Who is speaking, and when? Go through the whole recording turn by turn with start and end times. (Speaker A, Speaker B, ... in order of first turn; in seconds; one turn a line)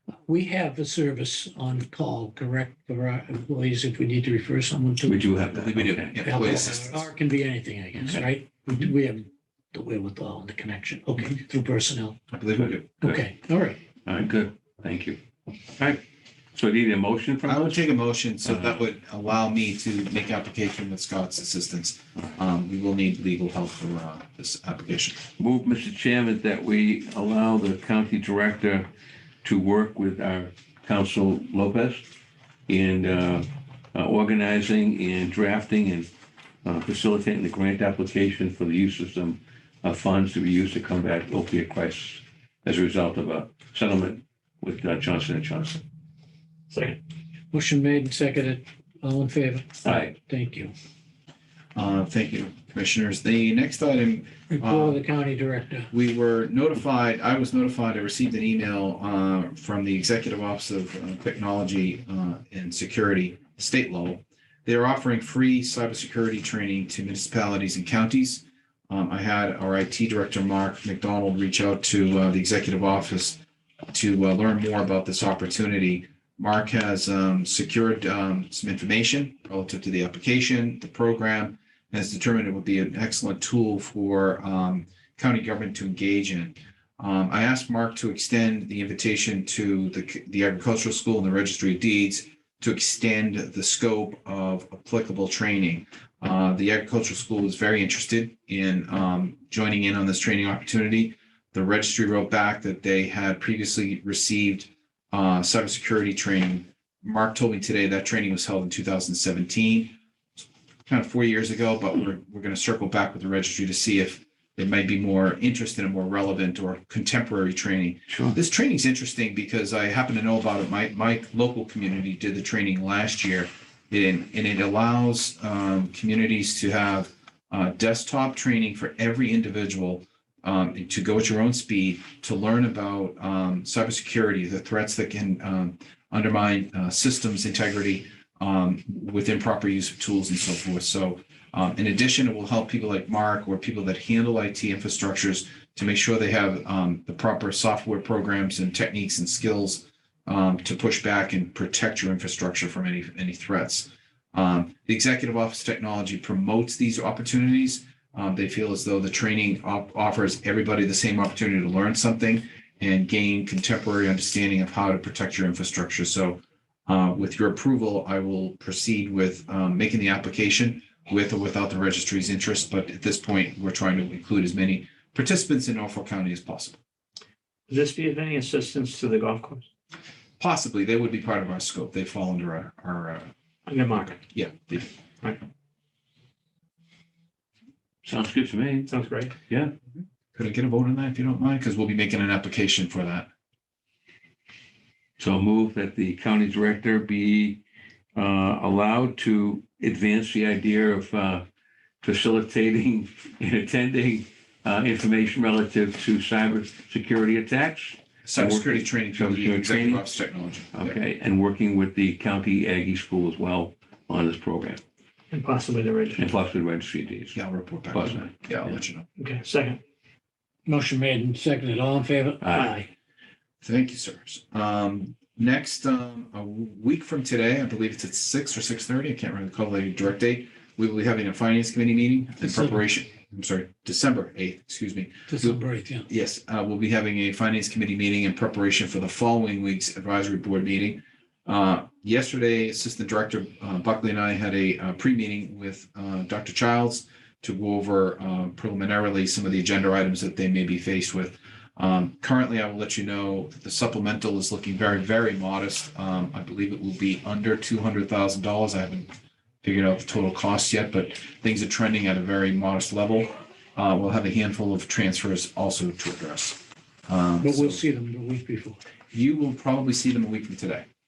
Speaker A: 0.2-5.4
Speaker B: 5.0-6.5
Speaker C: 5.5-7.1
Speaker A: 6.2-12.2
Speaker C: 12.3-12.9
Speaker B: 12.6-13.2
Speaker A: 13.0-13.8
Speaker B: 14.1-15.2
Speaker B: 16.5-17.9
Speaker C: 17.4-25.2
Speaker B: 18.4-18.8
Speaker B: 25.4-28.9
Speaker B: 29.4-32.1
Speaker B: 32.7-36.1
Speaker B: 36.6-45.8
Speaker D: 46.7-47.0
Speaker A: 47.5-50.7
Speaker B: 49.8-50.1
Speaker C: 51.7-55.0
Speaker A: 54.5-55.9
Speaker C: 55.9-73.4
Speaker C: 73.9-110.0
Speaker C: 110.9-176.8
Speaker B: 118.1-118.4
Speaker D: 177.7-179.7
Speaker C: 180.4-183.3
Speaker D: 183.7-184.2
Speaker C: 184.3-184.9
Speaker B: 188.0-188.9
Speaker D: 188.9-189.3
Speaker C: 190.3-193.3
Speaker B: 195.2-197.6
Speaker B: 198.1-201.4
Speaker B: 202.0-210.0
Speaker C: 208.2-211.0
Speaker B: 210.7-214.8
Speaker D: 215.3-216.3
Speaker B: 216.2-217.4
Speaker C: 217.3-219.1
Speaker B: 217.9-218.8
Speaker D: 219.2-219.8
Speaker A: 220.7-222.9
Speaker B: 222.4-222.8
Speaker C: 223.6-259.1
Speaker A: 232.4-232.8
Speaker A: 235.3-236.1
Speaker C: 259.6-267.8
Speaker A: 267.4-268.8
Speaker C: 269.1-270.9